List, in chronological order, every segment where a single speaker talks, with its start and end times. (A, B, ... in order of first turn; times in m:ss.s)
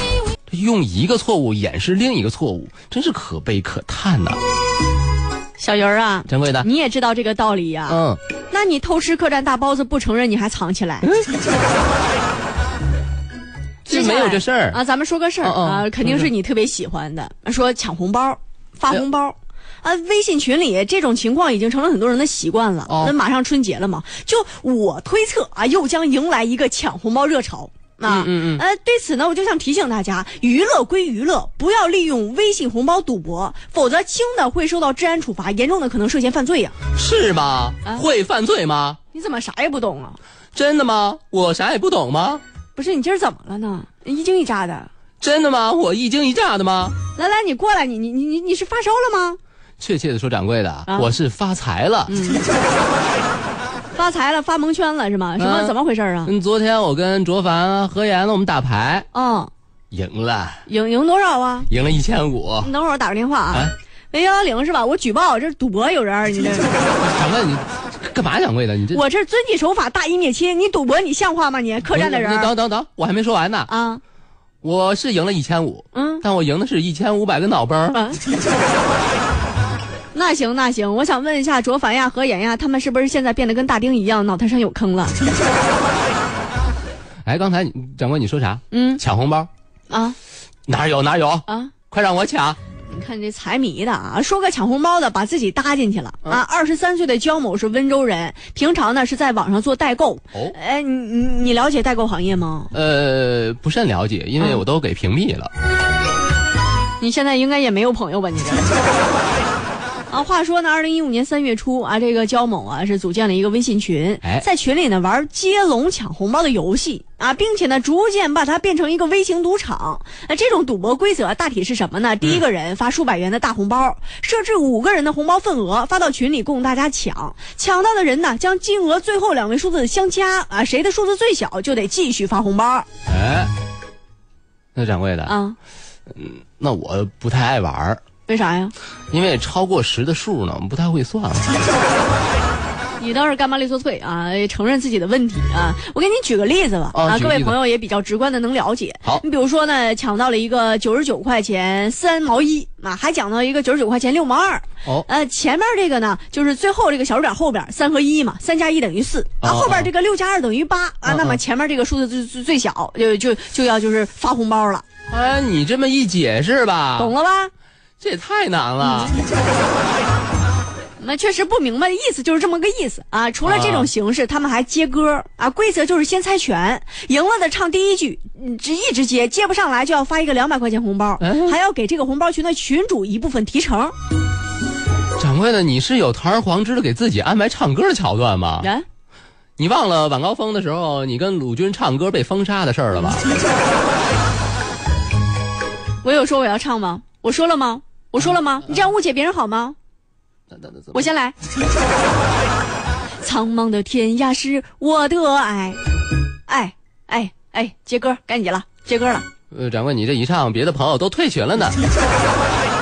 0:00.5-0:04.4 A
0:05.6-0:11.1 B
0:06.3-0:06.7 A
0:07.9-0:08.2 A
0:13.9-0:14.8 A
0:13.9-0:36.8 B
0:15.4-0:16.3 A
0:22.9-0:23.1 A
0:28.1-0:28.6 A
0:37.0-0:39.0 A
0:39.1-0:40.2 B
0:40.6-0:42.4 A
0:42.8-0:44.9 B
0:45.2-0:47.0 A
0:47.2-0:49.4 B
0:49.8-0:52.1 A
0:50.9-0:51.1 B
0:52.1-0:52.4 B
0:54.0-0:56.3 B
0:55.4-0:59.1 A
0:59.1-0:59.5 B
0:59.9-1:00.6 A
1:00.7-1:01.7 B
1:01.7-1:02.7 A
1:02.6-1:06.7 B
1:07.0-1:09.0 A
1:08.9-1:12.5 B
1:11.9-1:13.7 A
1:13.7-1:14.0 B
1:14.6-1:18.0 A
1:15.9-1:16.2 B
1:17.9-1:18.2 B
1:20.1-1:25.2 B
1:27.2-1:29.5 A
1:28.7-1:29.0 B
1:29.9-1:30.2 B
1:30.7-1:32.6 A
1:31.5-1:31.7 B
1:32.9-1:42.7 B
1:42.7-1:45.5 A
1:47.0-1:48.8 B
1:50.1-2:12.9 B
2:13.1-2:13.5 A
2:14.8-2:15.3 A
2:15.3-2:15.6 B
2:16.1-2:18.0 A
2:18.3-2:18.7 B
2:19.1-2:21.5 A
2:23.0-2:44.8 B
2:26.9-2:27.6 A
2:39.4-2:39.9 A
2:41.1-2:41.4 A
2:45.1-2:47.1 A
2:47.0-2:47.5 B
2:48.0-2:49.2 A
2:51.0-3:04.0 B
2:53.4-2:53.9 A
3:01.2-3:01.6 A
3:05.2-3:08.7 A
3:09.6-3:13.3 A
3:16.0-3:19.8 B
3:20.5-3:21.1 A
3:20.9-3:21.4 B
3:23.2-3:25.8 B
3:26.5-3:29.3 B
3:29.5-3:31.8 A